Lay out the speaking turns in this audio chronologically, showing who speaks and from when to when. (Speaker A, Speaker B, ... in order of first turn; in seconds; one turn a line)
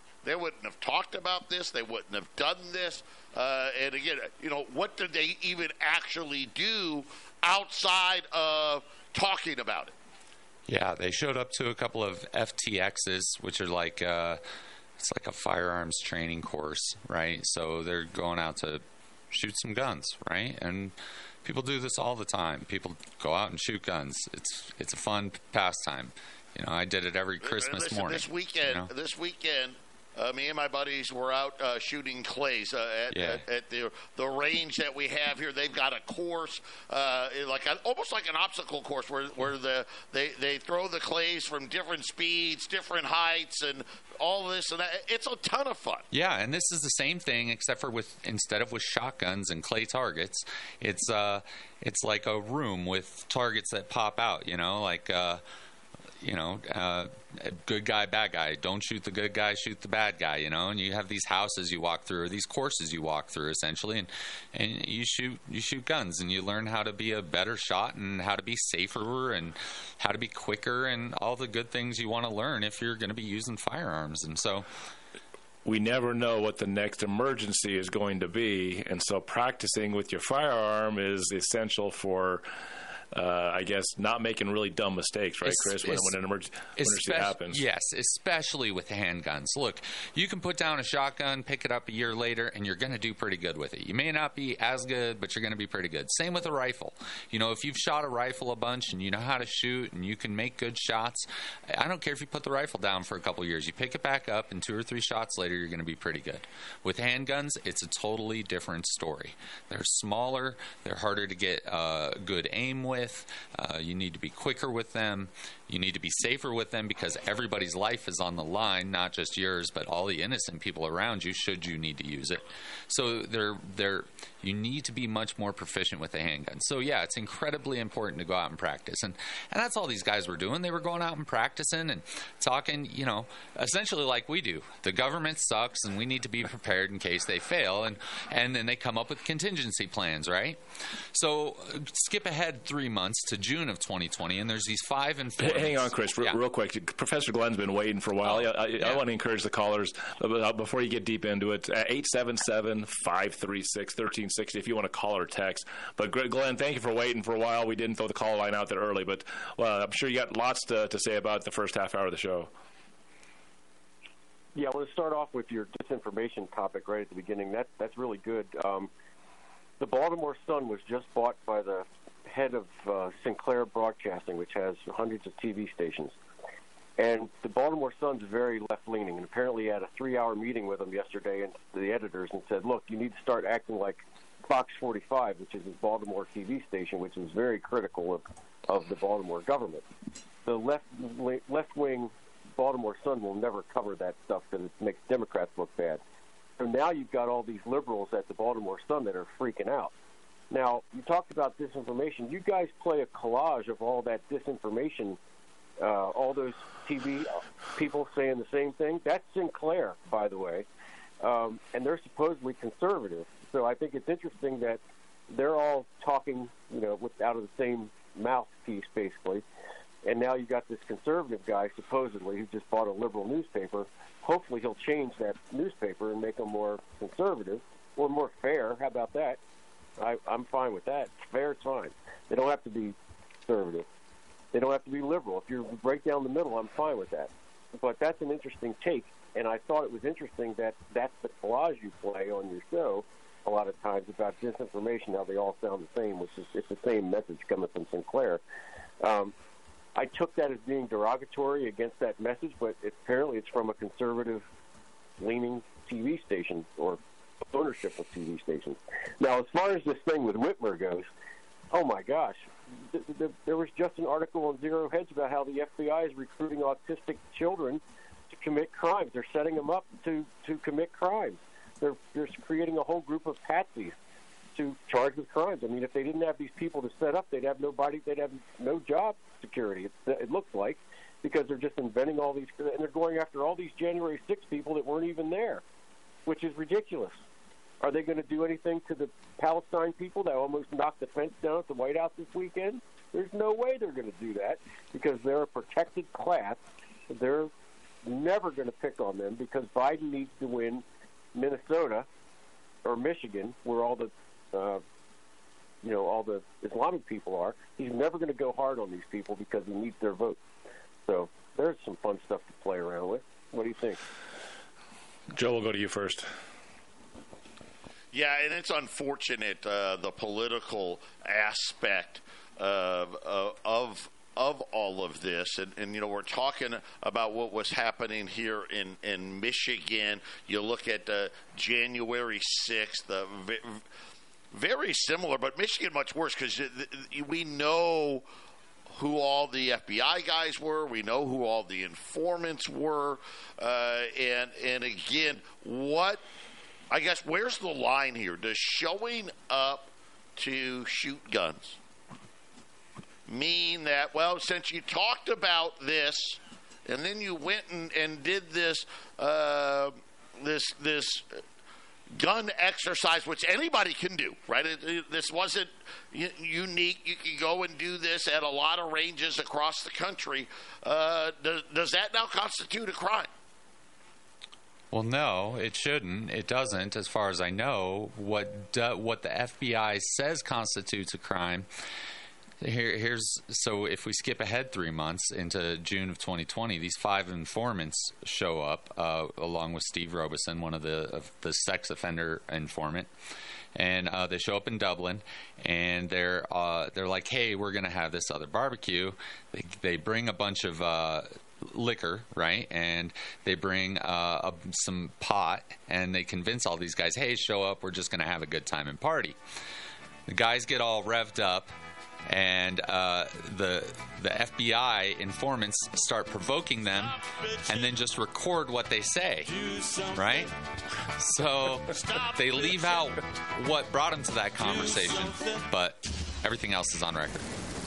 Speaker A: 0.2-9.9
Speaker B: 10.7-14.4
Speaker B: 15.0-28.9
Speaker A: 27.4-46.1
Speaker B: 33.1-33.4
Speaker B: 46.1-55.4
Speaker B: 56.2-74.7
Speaker C: 75.7-82.5
Speaker C: 83.1-87.6
Speaker B: 85.4-86.1
Speaker B: 86.8-146.4
Speaker C: 145.4-162.5
Speaker B: 148.2-149.0
Speaker D: 164.6-168.9
Speaker D: 169.8-176.2
Speaker D: 177.0-189.9
Speaker D: 190.4-196.0
Speaker D: 196.6-199.9
Speaker D: 200.5-205.2
Speaker D: 205.8-210.7
Speaker D: 211.2-219.4
Speaker D: 220.0-229.4
Speaker D: 230.0-232.9
Speaker D: 233.5-233.9
Speaker D: 234.5-248.4
Speaker D: 249.0-249.3
Speaker D: 250.0-254.4
Speaker D: 255.2-257.0
Speaker D: 257.5-261.1
Speaker D: 261.7-274.0
Speaker D: 274.5-285.6
Speaker D: 286.3-287.2
Speaker D: 287.8-297.5
Speaker D: 298.0-302.1
Speaker D: 302.8-304.8
Speaker D: 305.8-310.4
Speaker D: 311.1-314.0
Speaker C: 315.3-316.3
Speaker A: 318.1-333.9
Speaker A: 334.5-338.2
Speaker A: 338.9-346.2
Speaker A: 346.9-351.8
Speaker A: 353.3-361.4
Speaker A: 362.1-373.3
Speaker B: 374.9-381.7
Speaker B: 382.6-393.1
Speaker B: 393.8-409.4
Speaker B: 410.3-411.7
Speaker B: 412.3-417.2
Speaker A: 416.9-417.9
Speaker B: 417.7-419.5
Speaker A: 419.7-420.3
Speaker B: 420.1-420.5
Speaker B: 421.2-427.5
Speaker A: 421.9-423.0